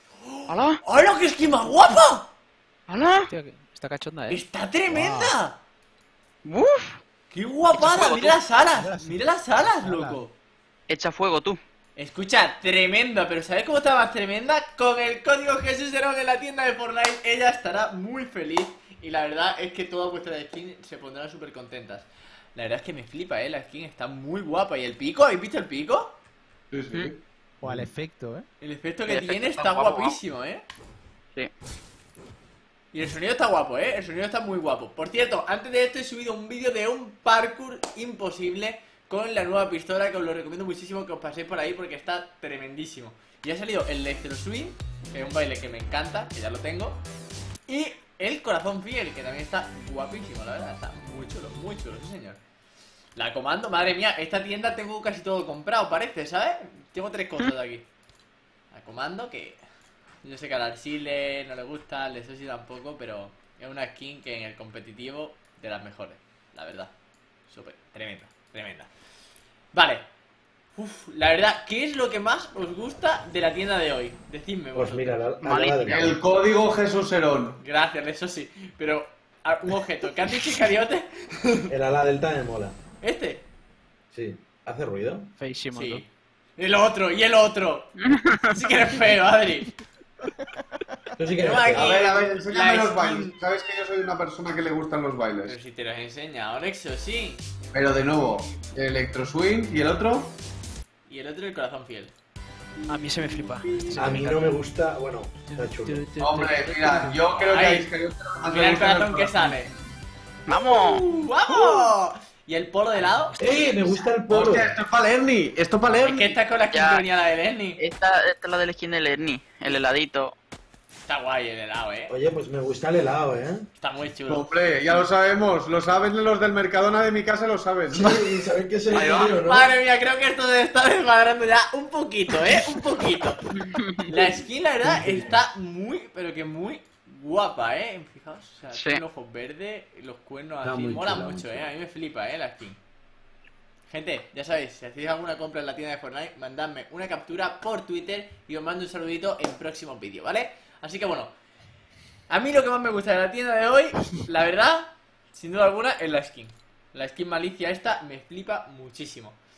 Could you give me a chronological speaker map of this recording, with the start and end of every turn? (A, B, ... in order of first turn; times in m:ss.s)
0:00.2-0:02.3 A
0:00.5-0:00.8 B
0:02.9-0:03.3 B
0:03.3-0:04.4 C
0:04.3-0:05.6 A
0:04.9-0:05.3 D
0:06.4-0:07.0 B
0:07.3-0:10.3 A
0:07.7-0:08.4 B
0:08.8-0:09.1 D
0:09.7-0:10.2 C
0:10.9-0:11.6 B
0:12.0-0:26.2 A
0:26.7-0:27.8 E
0:27.6-0:28.4 C
0:28.6-0:30.6 A
0:29.1-0:30.2 B
0:32.9-0:47.0 A
0:47.7-0:52.4 A
0:53.2-0:57.9 A
0:58.7-0:59.6 A
1:00.2-1:06.9 A
1:07.5-1:08.9 A
1:09.7-1:10.0 A
1:10.7-1:15.2 A
1:14.7-1:16.2 D
1:15.4-1:16.2 B
1:15.9-1:17.6 E
1:17.6-1:21.4 A
1:21.7-1:22.8 D
1:23.0-1:23.4 A
1:24.1-1:25.3 D
1:25.4-1:26.0 C
1:25.7-1:29.7 A
1:28.0-1:28.5 B
1:31.2-1:31.9 D
1:31.4-1:33.4 A
1:31.7-1:35.6 E
1:35.4-1:37.4 A
1:37.7-1:40.3 E
1:41.1-1:42.1 A
1:42.9-1:44.6 C
1:42.9-1:44.2 A
1:43.9-1:46.0 D
1:45.5-1:47.3 C
1:46.2-1:49.5 E
1:47.4-1:47.9 A
1:48.4-1:49.7 A
1:50.5-1:51.0 B
1:50.5-1:53.5 A
1:51.5-1:51.9 E
1:53.0-1:53.5 C
1:53.4-1:54.7 D
1:54.3-1:56.4 E
1:56.0-1:57.8 A
1:56.7-1:57.0 B
1:57.8-2:00.4 B
2:01.1-2:02.1 A
2:02.1-2:03.7 D
2:03.8-2:04.5 A
2:04.3-2:08.2 E
2:07.9-2:09.7 D
2:08.9-2:13.4 A
2:08.9-2:09.4 B
2:13.7-2:14.0 B
2:14.0-2:22.8 A
2:14.8-2:15.4 D
2:18.7-2:19.0 B
2:20.6-2:21.7 D
2:23.9-2:31.3 A
2:32.3-2:39.4 A